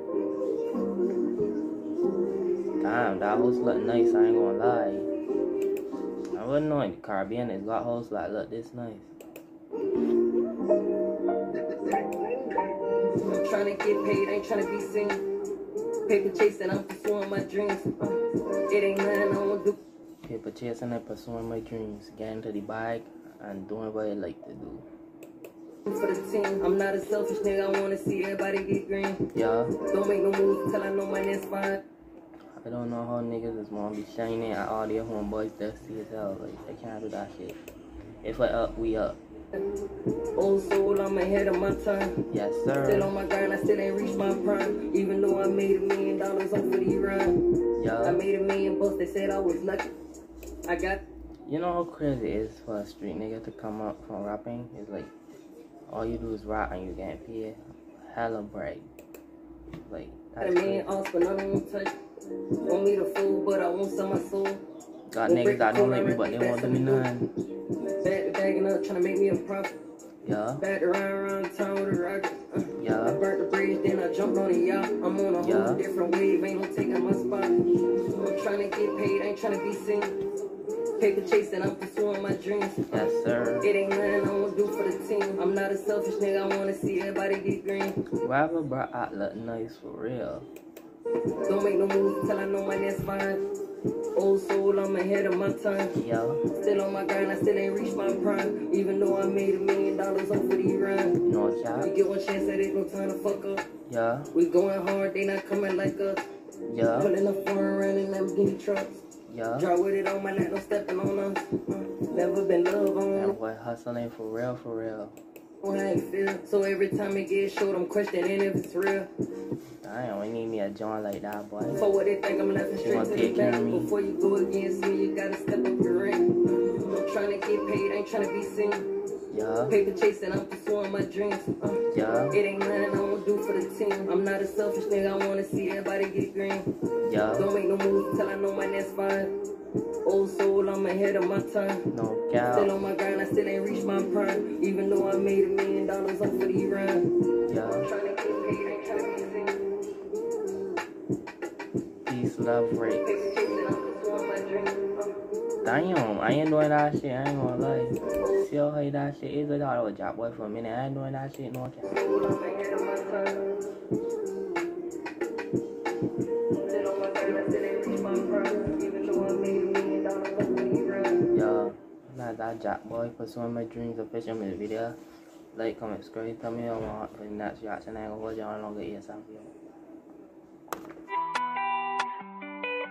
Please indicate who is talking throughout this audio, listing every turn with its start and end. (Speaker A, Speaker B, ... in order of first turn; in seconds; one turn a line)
Speaker A: 2.8-5.1
Speaker A: 6.3-9.1
Speaker B: 13.2-15.3
Speaker B: 16.1-19.8
Speaker A: 20.2-24.8
Speaker B: 25.9-29.2
Speaker A: 29.3-29.7
Speaker B: 29.9-31.8
Speaker A: 32.6-37.6
Speaker A: 38.2-39.2
Speaker B: 40.4-42.2
Speaker A: 42.3-43.1
Speaker B: 42.8-47.4
Speaker A: 47.8-48.2
Speaker B: 48.0-49.9
Speaker B: 50.7-51.0
Speaker A: 51.5-55.1
Speaker A: 55.9-58.9
Speaker A: 59.8-60.9
Speaker B: 60.4-61.9
Speaker B: 62.6-64.6
Speaker A: 65.1-67.3
Speaker B: 65.3-67.1
Speaker B: 68.0-69.7
Speaker A: 70.2-70.6
Speaker B: 70.6-80.2
Speaker A: 72.8-73.2
Speaker A: 75.4-75.8
Speaker B: 81.0-83.1
Speaker A: 82.9-83.7
Speaker B: 83.6-88.0
Speaker A: 88.2-90.5
Speaker B: 91.5-93.4
Speaker B: 94.2-96.0
Speaker A: 95.9-96.4
Speaker B: 96.6-101.2
Speaker A: 101.2-101.9
Speaker B: 101.8-103.7
Speaker A: 103.9-104.3
Speaker B: 104.3-106.2
Speaker A: 106.7-107.1
Speaker B: 106.9-109.0
Speaker A: 109.3-109.7
Speaker B: 109.6-113.3
Speaker A: 113.1-115.2
Speaker B: 115.6-119.1
Speaker A: 119.8-121.8
Speaker B: 121.8-128.9
Speaker A: 122.8-123.9
Speaker A: 129.3-129.8
Speaker B: 129.7-136.7
Speaker A: 131.9-132.4
Speaker A: 137.1-137.5
Speaker B: 137.3-139.3
Speaker B: 140.1-141.9
Speaker A: 141.9-142.7
Speaker B: 142.5-147.1
Speaker A: 147.5-147.9
Speaker B: 147.8-149.6
Speaker A: 152.1-153.3
Speaker B: 153.0-155.1
Speaker A: 155.6-161.9
Speaker B: 161.9-163.5
Speaker B: 166.6-171.2
Speaker A: 171.3-175.0
Speaker A: 175.5-179.5